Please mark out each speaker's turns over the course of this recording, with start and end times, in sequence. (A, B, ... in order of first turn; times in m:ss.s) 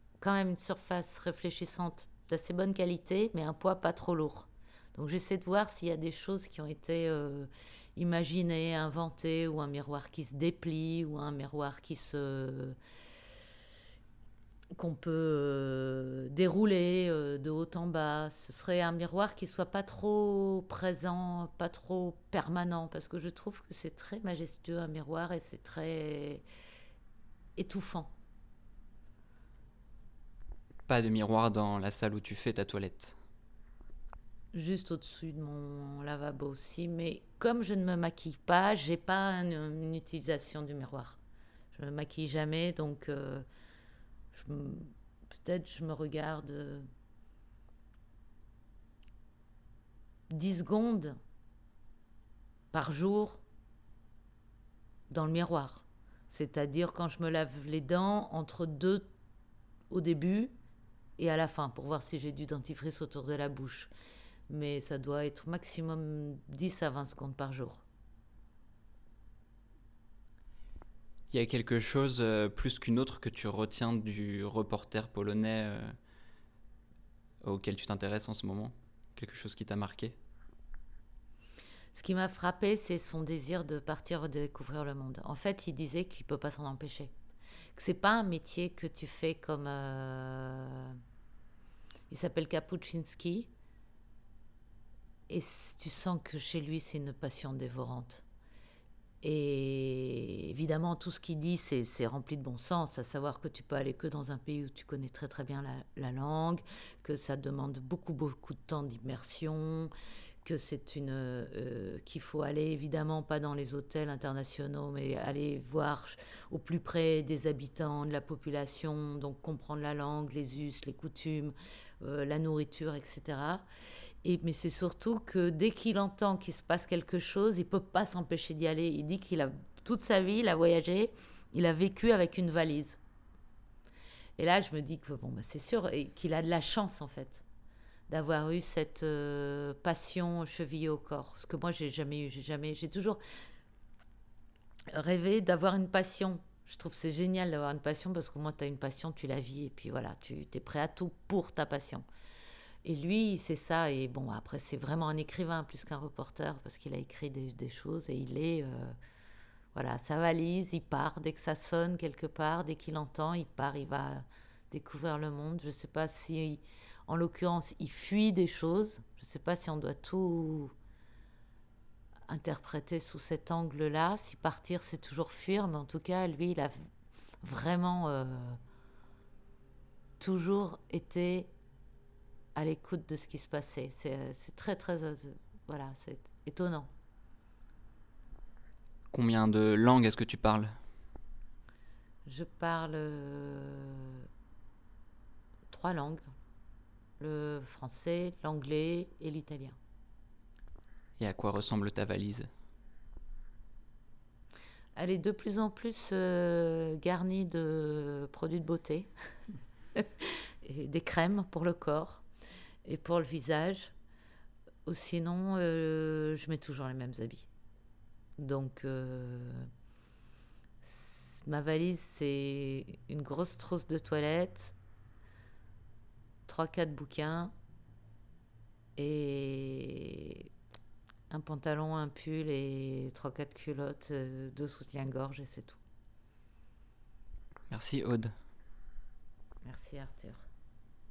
0:00.2-0:12.8 A
0:14.8-0:26.4 A
0:27.6-0:28.1 A
0:30.9-0:33.2 B
0:34.5-0:41.2 A
0:41.7-0:43.4 A
0:44.3-0:46.9 A
0:50.3-0:51.2 A
0:52.7-0:53.4 A
0:55.1-0:59.1 A
0:59.9-1:00.5 A
1:01.2-1:03.9 A
1:04.5-1:07.8 A
1:11.3-1:15.9 B
1:17.4-1:20.2 B
1:21.9-1:27.1 A
1:27.8-1:31.0 A
1:32.1-1:33.5 A
1:35.3-1:38.2 A
1:39.2-1:49.9 A
1:50.4-2:03.6 A
2:04.2-2:13.0 A
2:14.4-2:17.4 A
2:18.1-2:23.2 A
2:24.9-2:32.0 A
2:32.8-2:39.0 A
2:39.7-2:50.7 A
2:52.3-2:56.8 A
2:57.4-2:58.6 A
3:00.2-3:01.5 A
3:02.5-3:06.9 A
3:09.1-3:10.7 B
3:12.2-3:14.3 A
3:15.7-3:16.2 A
3:17.2-3:19.8 A
3:21.2-3:22.5 B
3:25.0-3:29.1 A
3:30.0-3:32.2 A
3:32.8-3:33.9 A
3:34.8-3:37.5 A
3:38.4-3:39.7 A
3:40.8-3:44.7 A
3:46.5-3:47.5 A
3:49.0-3:50.5 A
3:51.3-3:55.8 A
3:57.7-3:58.3 B
3:59.6-4:00.4 A